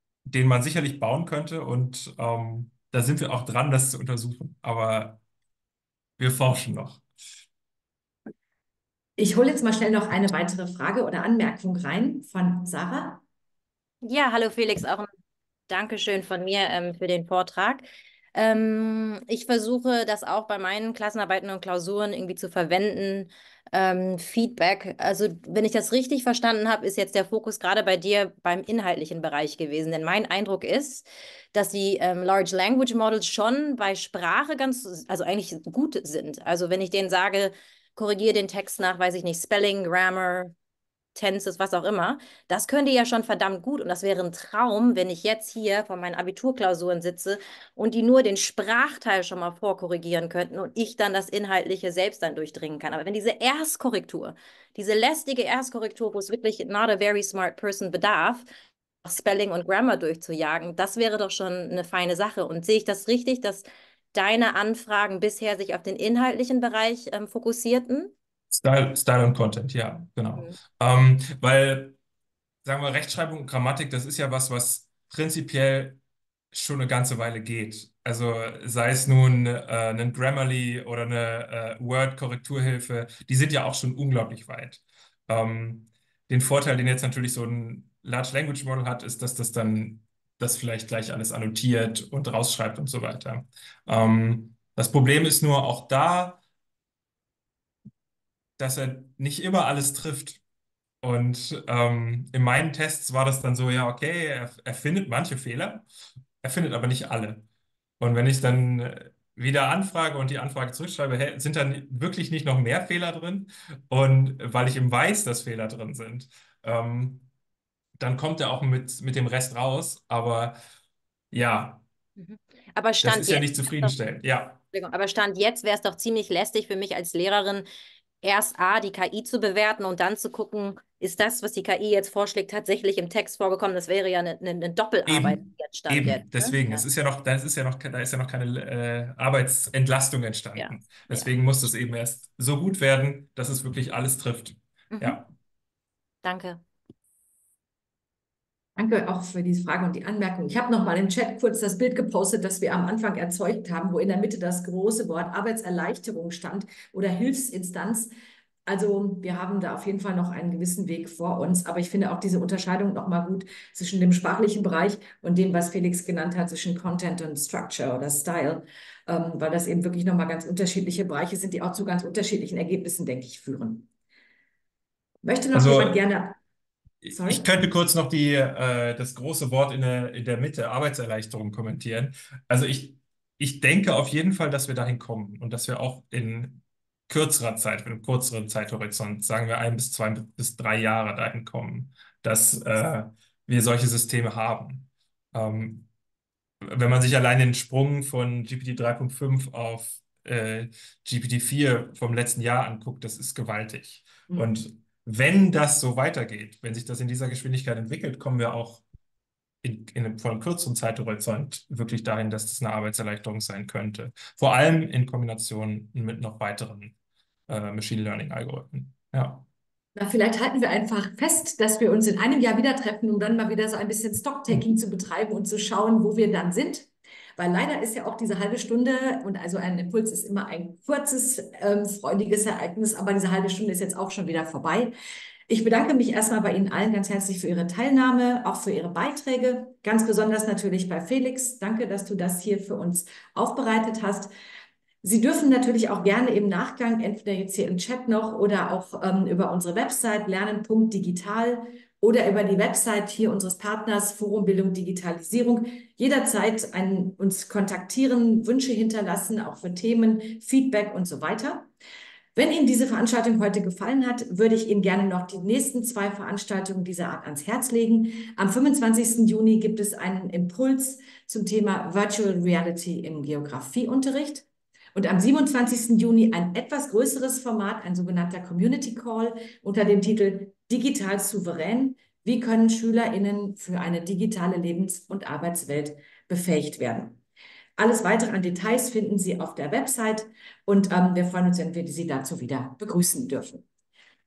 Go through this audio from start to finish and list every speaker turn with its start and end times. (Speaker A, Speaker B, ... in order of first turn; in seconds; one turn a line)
Speaker A: 0.3-5.2
Speaker A: 6.2-7.0
Speaker B: 9.2-13.2
Speaker C: 14.0-15.1
Speaker C: 15.7-40.5
Speaker C: 41.1-58.5
Speaker C: 59.0-68.1
Speaker A: 68.5-72.0
Speaker A: 72.7-76.0
Speaker A: 76.5-96.4
Speaker A: 98.6-100.4
Speaker A: 101.0-105.9
Speaker A: 106.4-107.5
Speaker A: 108.0-117.3
Speaker A: 118.0-120.6
Speaker A: 121.3-121.8
Speaker C: 122.2-124.0
Speaker A: 123.0-124.6
Speaker C: 124.7-127.7
Speaker C: 128.2-136.8
Speaker A: 135.1-145.3
Speaker C: 140.6-141.3
Speaker C: 144.9-145.2
Speaker C: 146.2-146.6
Speaker B: 148.8-158.1
Speaker B: 158.7-173.9
Speaker B: 175.2-176.4
Speaker A: 175.5-176.1
Speaker A: 177.0-195.9
Speaker B: 177.1-177.4
Speaker A: 196.6-208.8
Speaker A: 209.6-217.0
Speaker A: 217.5-219.5
Speaker B: 219.9-234.9
Speaker B: 235.5-244.3
Speaker B: 245.0-261.7
Speaker B: 262.4-287.2
Speaker B: 287.8-293.6